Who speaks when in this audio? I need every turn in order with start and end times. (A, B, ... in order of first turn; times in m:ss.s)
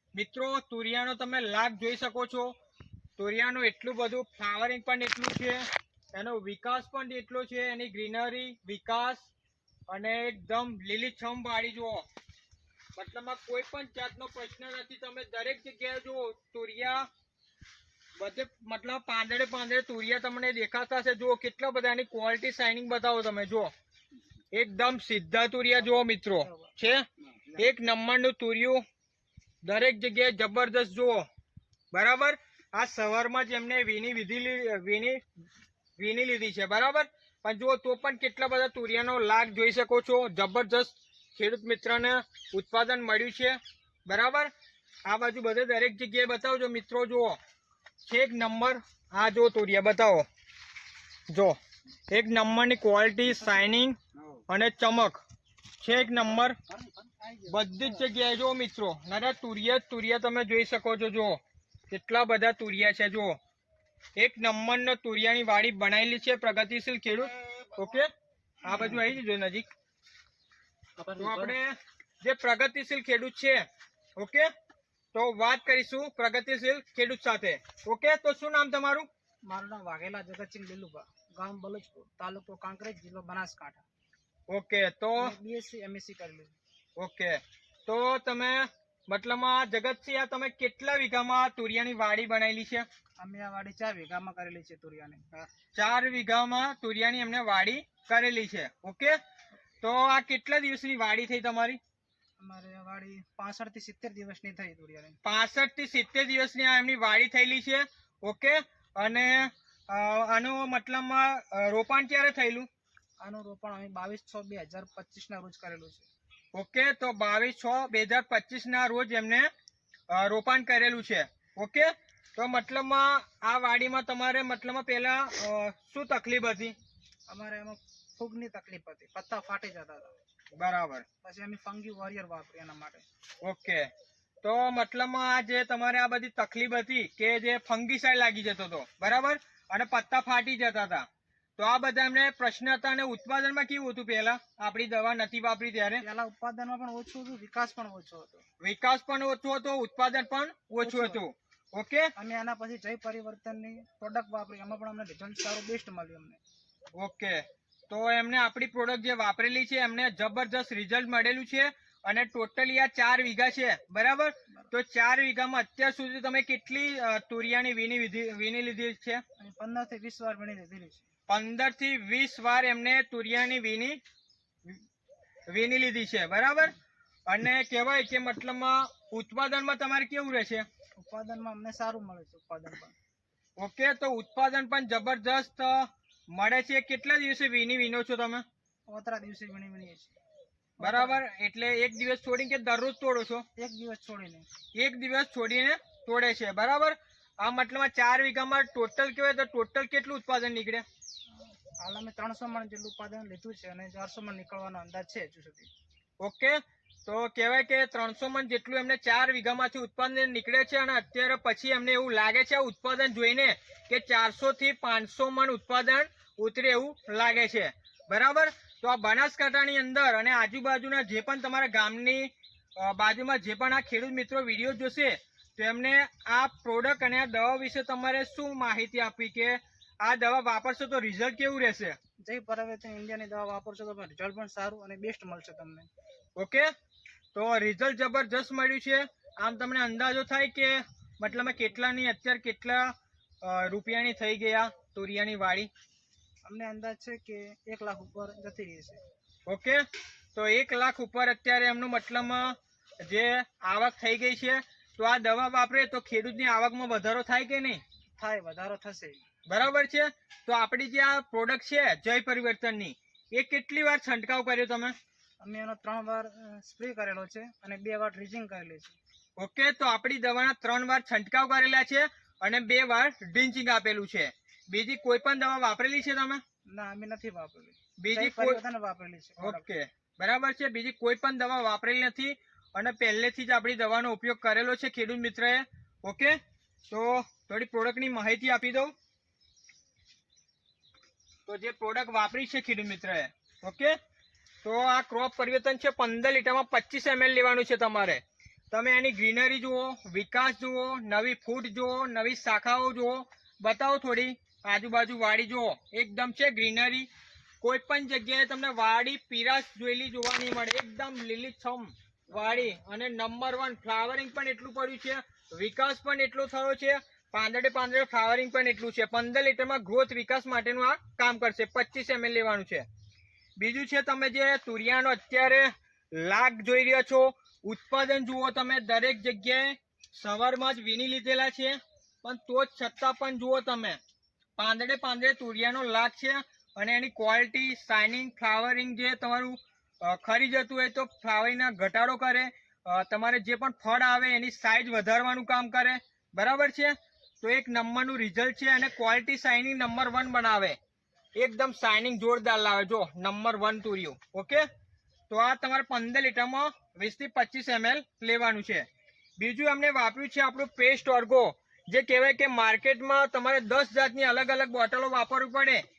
0:00.1-0:02.5 A
0:03.2-0:05.6 A
0:06.1-0:09.3 A
0:09.9-0:12.0 A
0:13.0-0:17.1 A
0:18.2-0:23.7 A
0:24.5-0:28.8 A
0:26.4-0:26.7 B
0:29.6-0:31.2 A
0:31.9-0:35.2 A
0:36.0-0:44.5 A
0:45.0-0:47.4 A
0:48.0-0:50.2 A
0:51.3-0:51.6 A
0:52.1-0:55.2 A
0:55.8-0:56.6 A
0:57.0-0:57.4 B
0:57.4-1:03.4 A
1:04.2-1:08.1 A
1:08.6-1:09.7 A
1:11.0-1:13.6 A
1:14.2-1:14.5 A
1:15.1-1:19.1 A
1:19.5-1:23.8 B
1:24.5-1:25.3 A
1:25.2-1:26.6 B
1:27.0-1:32.9 A
1:33.2-1:35.5 B
1:35.7-1:39.2 A
1:39.8-1:41.8 A
1:42.4-1:45.2 B
1:45.2-1:52.7 A
1:53.2-1:56.1 B
1:56.5-1:59.5 A
2:00.1-2:06.8 A
2:07.3-2:10.1 B
2:10.6-2:11.0 A
2:11.2-2:13.0 B
2:13.4-2:13.9 A
2:14.4-2:21.1 A
2:21.6-2:26.0 A
2:26.0-2:28.4 B
2:28.6-2:32.1 A
2:30.8-2:31.2 B
2:32.2-2:36.4 B
2:37.0-2:49.2 A
2:49.4-2:51.1 B
2:51.3-2:54.0 A
2:55.5-2:56.7 A
2:57.3-3:00.6 A
3:01.0-3:02.9 B
3:03.6-3:08.4 A
3:08.9-3:10.1 B
3:10.8-3:11.2 B
3:10.8-3:13.4 A
3:13.6-3:14.5 B
3:14.8-3:20.8 A
3:21.8-3:25.7 B
3:26.2-3:52.0 A
3:52.2-3:55.9 B
3:56.4-3:56.7 A
3:57.3-4:05.7 A
4:06.5-4:09.0 B
4:09.5-4:09.8 A
4:10.3-4:17.8 A
4:18.2-4:19.2 B
4:19.5-4:24.9 A
4:25.4-4:29.0 B
4:29.4-4:36.4 A
4:36.7-4:39.6 B
4:38.0-4:38.6 A
4:39.4-4:46.4 A
4:46.9-4:48.9 A
4:51.5-4:54.0 A
4:54.6-5:07.1 A
5:07.6-5:22.9 A
5:23.6-5:34.0 A
5:34.6-5:50.8 A
5:51.4-5:54.6 A
5:55.3-5:58.9 A
5:59.4-6:05.8 A